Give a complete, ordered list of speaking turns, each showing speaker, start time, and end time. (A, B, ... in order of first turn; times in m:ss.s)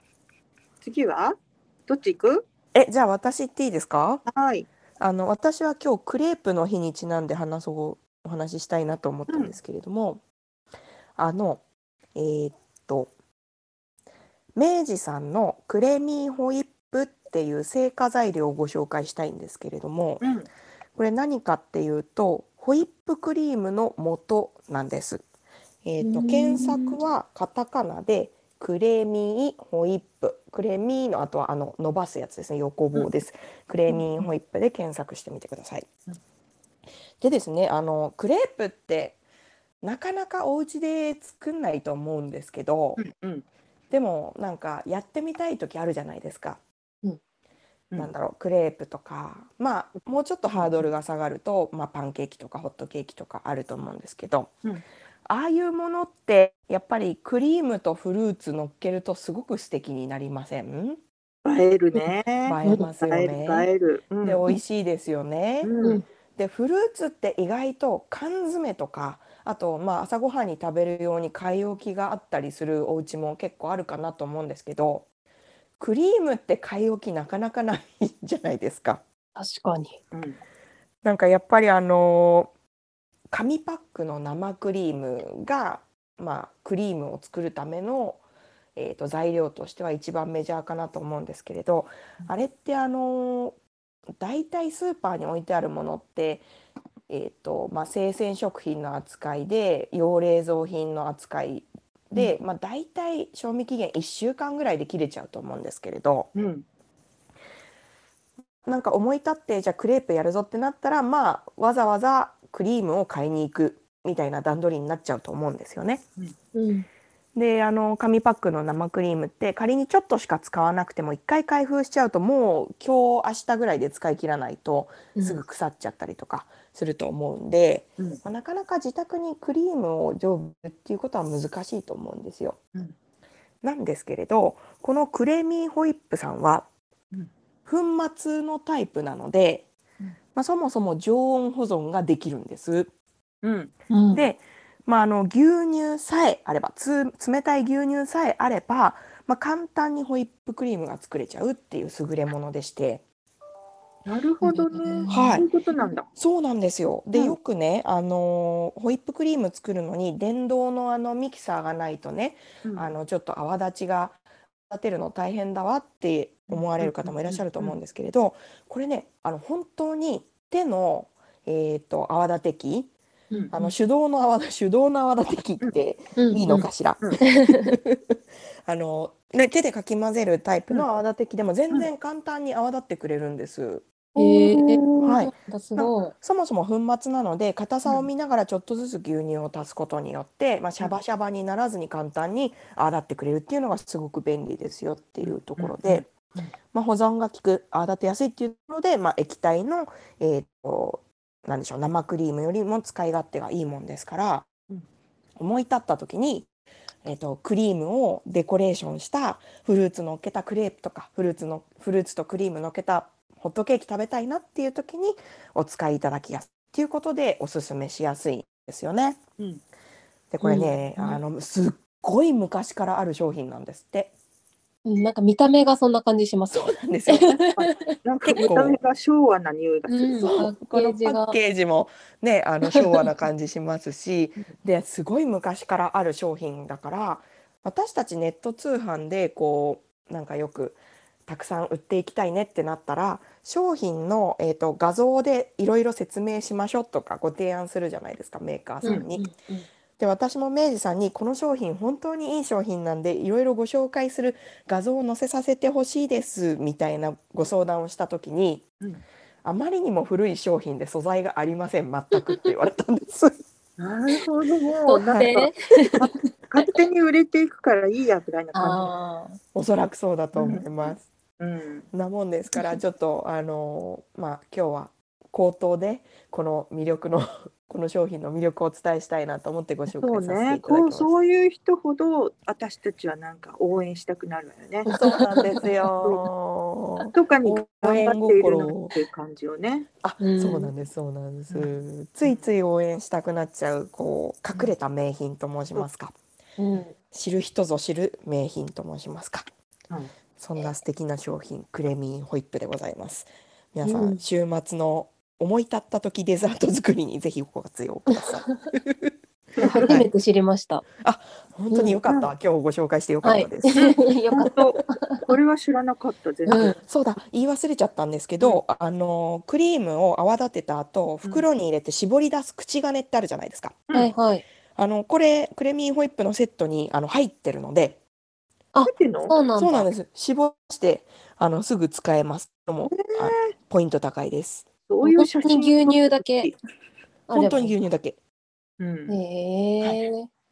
0:00.8-0:02.5 A
0:02.7-0:04.2 B
0:04.3-0:04.7 A
0:05.0-0:10.2 B
0:09.3-0:09.6 A
0:11.2-0:11.6 B
0:12.2-0:13.1 B
0:14.6-0:20.3 B
0:20.2-0:20.5 A
0:21.0-0:25.2 B
0:25.8-0:35.9 B
0:26.0-0:27.0 C
0:37.2-0:39.2 B
0:39.8-0:43.0 B
0:43.0-0:43.4 A
0:43.9-0:46.6 B
0:48.0-0:54.5 B
0:50.5-0:50.9 A
0:55.3-1:01.0 B
1:01.4-1:04.5 A
1:02.4-1:03.7 B
1:04.2-1:05.7 B
1:05.6-1:06.0 A
1:06.4-1:15.1 B
1:15.8-1:19.0 B
1:19.4-1:20.0 C
1:20.1-1:20.4 A
1:21.0-1:22.5 B
1:23.3-1:28.2 B
1:28.8-1:33.6 B
1:34.2-1:36.5 B
1:37.1-1:46.3 B
1:46.4-1:46.6 A
1:48.6-1:56.0 B
1:56.5-1:56.9 C
1:57.4-2:12.6 B
2:05.2-2:05.4 C
2:13.6-2:16.7 B
2:17.7-2:19.7 B
2:20.4-2:22.9 B
2:23.4-2:24.3 A
2:24.1-2:33.0 B
2:34.1-2:36.1 A
2:34.4-2:35.4 C
2:35.1-2:35.5 B
2:36.2-2:52.9 B
2:42.6-2:42.9 A
2:46.5-2:47.8 A
2:53.5-3:03.9 B
2:56.2-2:56.7 C
2:57.2-2:57.8 C
3:04.2-3:05.2 A
3:04.2-3:06.1 C
3:05.0-3:16.1 B
3:15.2-3:16.5 A
3:16.7-3:24.5 B
3:25.4-3:26.5 B
3:27.0-3:39.2 B
3:40.3-3:44.1 B
3:40.4-3:41.1 C
3:44.8-3:48.0 C
3:46.5-3:47.4 B
3:47.4-3:50.3 A
3:48.2-3:48.8 B
3:49.9-3:51.4 C
3:50.2-4:09.3 B
3:52.7-3:53.1 C
4:08.8-4:09.7 C
4:10.0-4:18.7 B
4:19.4-4:23.4 B
4:23.8-4:28.9 A
4:24.9-4:26.7 C
4:28.5-4:29.4 C
4:29.5-4:31.1 B
4:30.4-4:30.7 A
4:31.4-4:31.9 A
4:31.9-4:41.1 B
4:39.9-4:45.0 A
4:44.9-4:45.6 C
4:44.9-4:49.0 B
4:47.1-4:49.9 A
4:50.0-4:56.2 B
4:50.2-4:50.7 C
4:51.5-4:52.5 A
4:56.6-4:57.0 C
4:57.1-4:59.4 B
5:00.4-5:09.2 B
5:03.8-5:04.2 C
5:08.1-5:08.7 C
5:09.6-5:10.0 A
5:09.6-5:10.8 C
5:09.8-5:10.1 B
5:11.0-5:13.8 B
5:11.7-5:12.0 C
5:12.0-5:12.3 A
5:13.2-5:15.2 C
5:13.8-5:16.8 A
5:16.5-5:16.8 C
5:16.6-5:23.8 B
5:23.9-5:24.4 C
5:24.8-5:28.0 B
5:28.7-5:29.9 C
5:28.8-5:29.4 A
5:29.6-5:34.7 B
5:32.9-5:33.5 A
5:34.9-5:36.6 A
5:35.0-5:36.5 C
5:37.3-5:37.8 C
5:37.3-5:38.2 B
5:38.8-5:39.2 A
5:39.1-5:40.3 C